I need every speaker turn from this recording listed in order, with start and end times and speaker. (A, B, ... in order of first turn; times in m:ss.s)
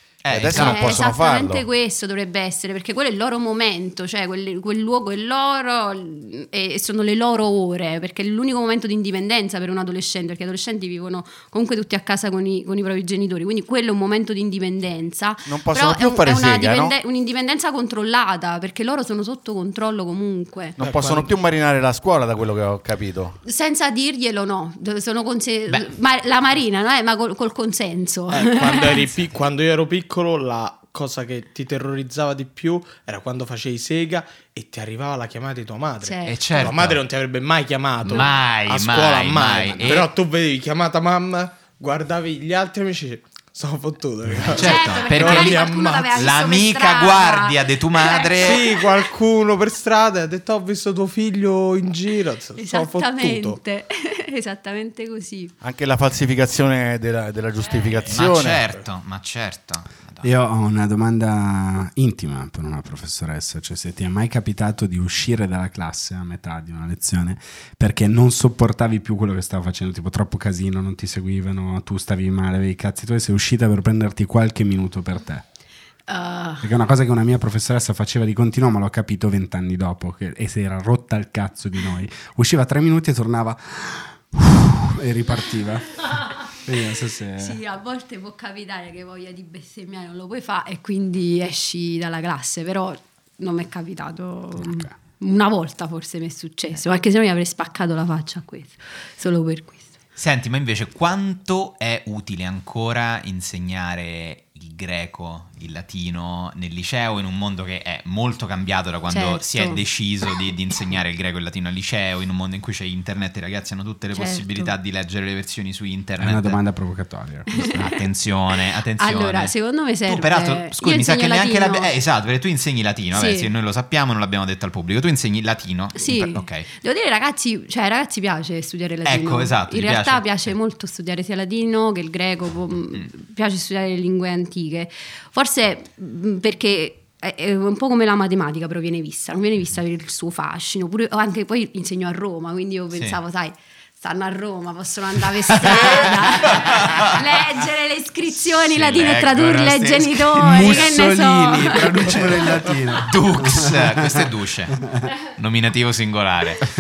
0:00.2-0:01.0 A
0:00.3-0:01.7 B
0:00.5-0:20.8 C
0:15.5-0:17.0 B
0:20.8-0:23.4 B
0:20.8-0:21.3 D
0:23.4-0:29.1 C
0:28.3-0:46.3 D
0:36.0-0:36.4 C
0:36.3-0:37.0 A
0:38.1-0:40.1 A
0:44.4-0:48.7 A
0:44.5-0:48.7 C
0:48.4-0:53.6 D
0:52.6-0:55.5 C
0:55.6-0:58.7 B
0:57.6-0:58.4 D
0:58.1-1:00.3 A
1:00.2-1:15.4 E
1:16.1-1:16.7 C
1:16.6-1:27.6 E
1:27.4-1:39.9 C
1:34.6-1:34.9 E
1:40.2-1:56.6 A
1:49.1-1:49.8 C
1:54.1-1:54.7 C
1:56.2-1:57.8 E
1:57.5-1:58.0 C
1:57.8-1:59.5 A
1:59.0-2:01.9 C
2:00.1-2:06.7 A
2:03.1-2:03.5 C
2:06.0-2:32.4 C
2:09.0-2:10.5 A
2:25.7-2:27.2 A
2:28.4-2:34.8 A
2:30.4-2:34.3 E
2:35.4-2:36.7 A